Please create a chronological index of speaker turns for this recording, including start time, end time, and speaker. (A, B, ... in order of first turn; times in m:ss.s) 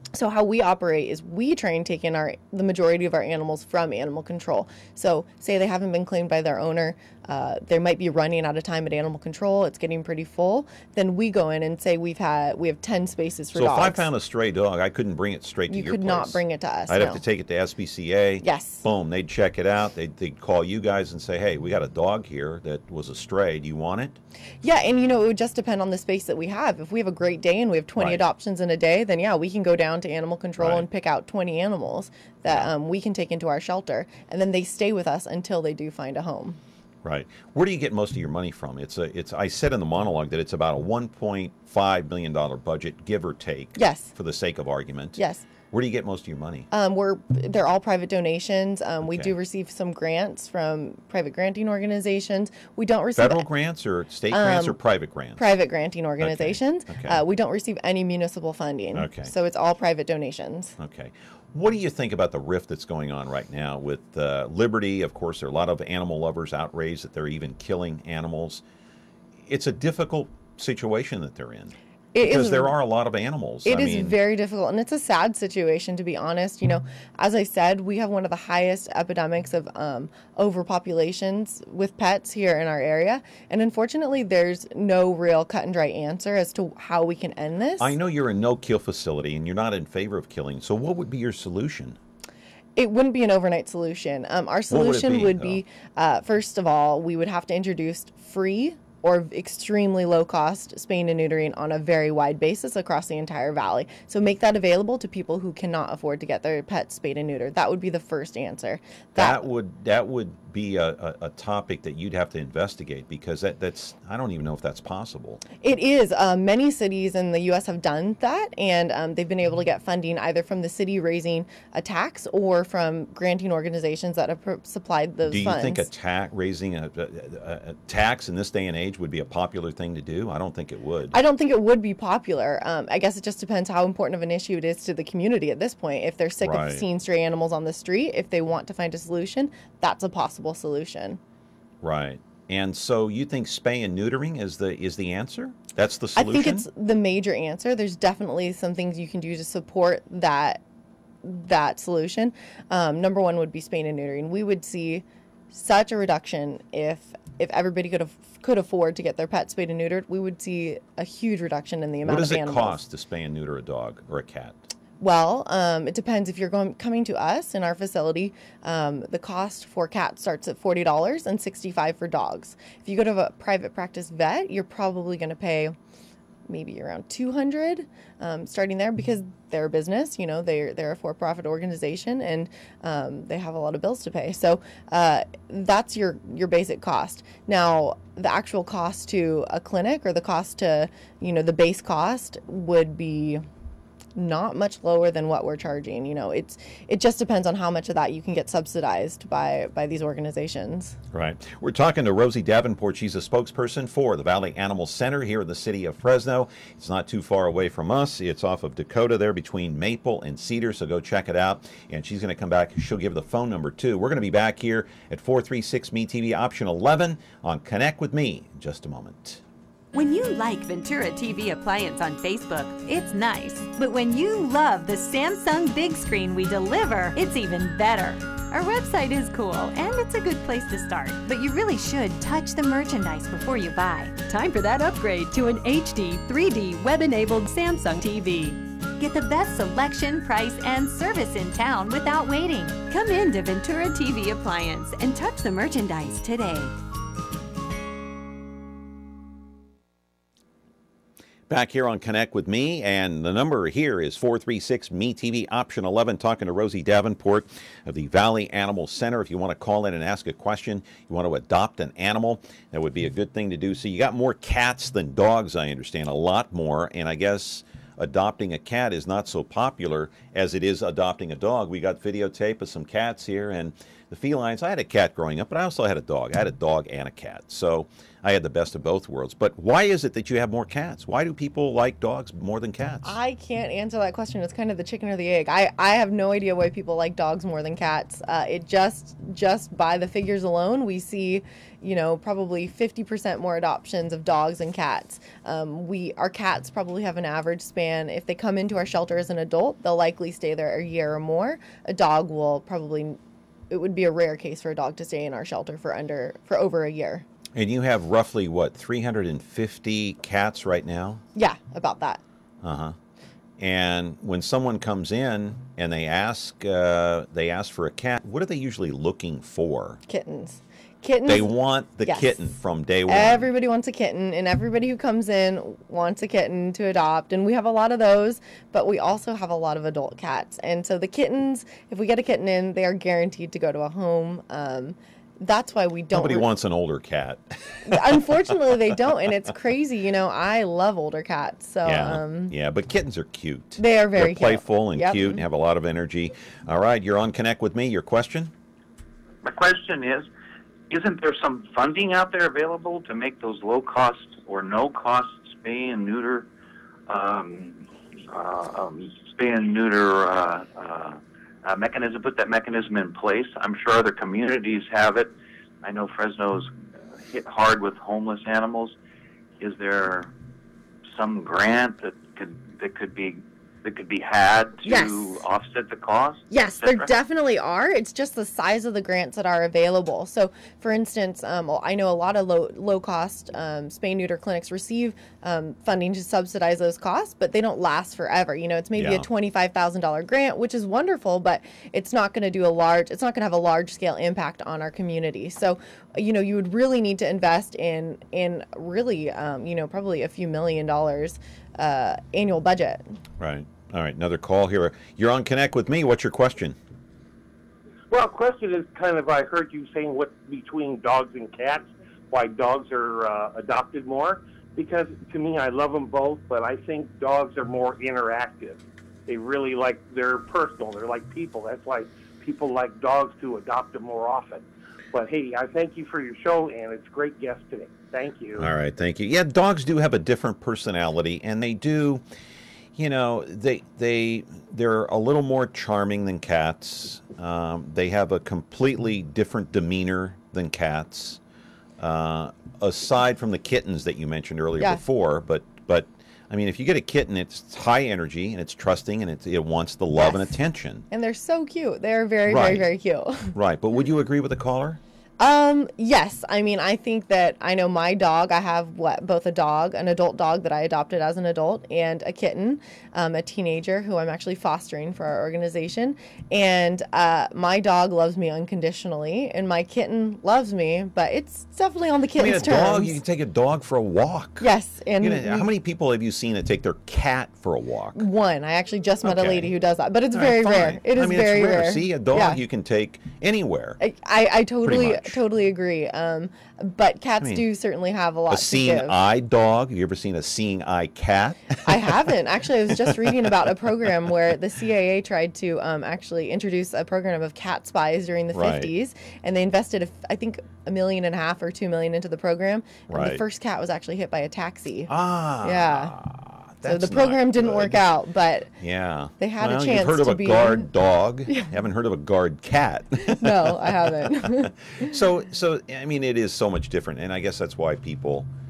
0:00.1-0:14.1 A
0:13.5-0:24.2 B
0:15.7-0:17.2 A
0:18.4-0:18.8 A
0:24.6-0:36.6 A
0:28.0-0:28.2 B
0:30.6-0:30.9 B
0:32.4-0:32.7 B
0:37.0-0:46.7 B
0:43.8-0:44.1 A
0:45.2-0:45.4 A
0:46.7-0:53.5 A
0:49.0-0:49.3 B
0:53.2-0:55.4 B
0:54.3-0:54.8 A
0:55.3-1:00.8 A
0:56.2-0:57.2 B
0:58.9-0:59.3 B
1:00.8-1:08.6 B
1:09.4-1:14.2 B
1:12.1-1:12.7 A
1:13.6-1:27.9 A
1:27.8-1:32.0 B
1:32.8-1:49.4 A
1:34.7-1:35.6 B
1:49.1-1:55.4 B
1:55.6-2:05.9 A
2:05.2-2:11.2 B
2:11.1-2:21.2 A
2:16.4-2:16.8 B
2:21.8-2:26.7 B
2:26.2-2:30.6 A
2:31.2-2:42.8 A
2:42.0-2:44.6 B
2:45.0-2:55.8 A
2:56.5-3:13.4 A
3:14.2-3:21.0 A
3:21.1-3:39.4 B
3:39.9-4:06.7 C
4:11.5-4:43.2 B
4:43.0-5:03.2 A
5:03.7-5:07.2 A
5:07.5-5:11.2 B
5:11.4-5:12.2 A
5:12.6-5:13.0 B
5:13.6-5:20.0 B
5:20.1-5:21.5 A
5:21.2-5:23.5 B
5:22.0-5:22.5 A
5:23.0-5:36.5 A
5:36.1-5:38.9 B
5:37.8-5:42.5 A
5:41.8-5:48.5 B
5:43.8-5:45.4 A
5:49.4-5:50.3 D
5:50.9-5:56.5 D
5:57.1-6:08.9 D
6:09.6-6:10.3 D
6:11.1-6:17.1 D
6:14.8-6:15.4 A
6:16.5-6:43.1 A
6:29.0-6:29.2 B
6:43.4-6:46.8 B
6:48.1-7:08.7 E
7:08.6-7:12.2 B
7:13.0-7:21.4 B
7:22.0-7:31.0 B
7:30.2-7:30.5 A
7:31.1-7:33.5 A
7:32.5-7:32.9 B
7:33.5-7:35.0 B
7:35.4-7:53.2 A
7:52.4-7:54.7 B
7:54.6-7:55.7 A
7:55.2-7:58.2 B
7:58.1-8:02.6 A
7:59.2-7:59.7 B
8:00.3-8:04.0 B
8:04.0-8:09.1 A
8:04.8-8:05.4 B
8:07.4-8:07.6 B
8:08.5-8:12.2 B
8:11.8-8:26.1 A
8:12.9-8:14.1 B
8:18.5-8:18.9 B
8:23.1-8:23.4 B
8:25.1-8:28.0 B
8:26.8-8:28.7 A
8:28.8-8:38.5 B
8:29.4-8:30.9 A
8:33.2-8:35.1 A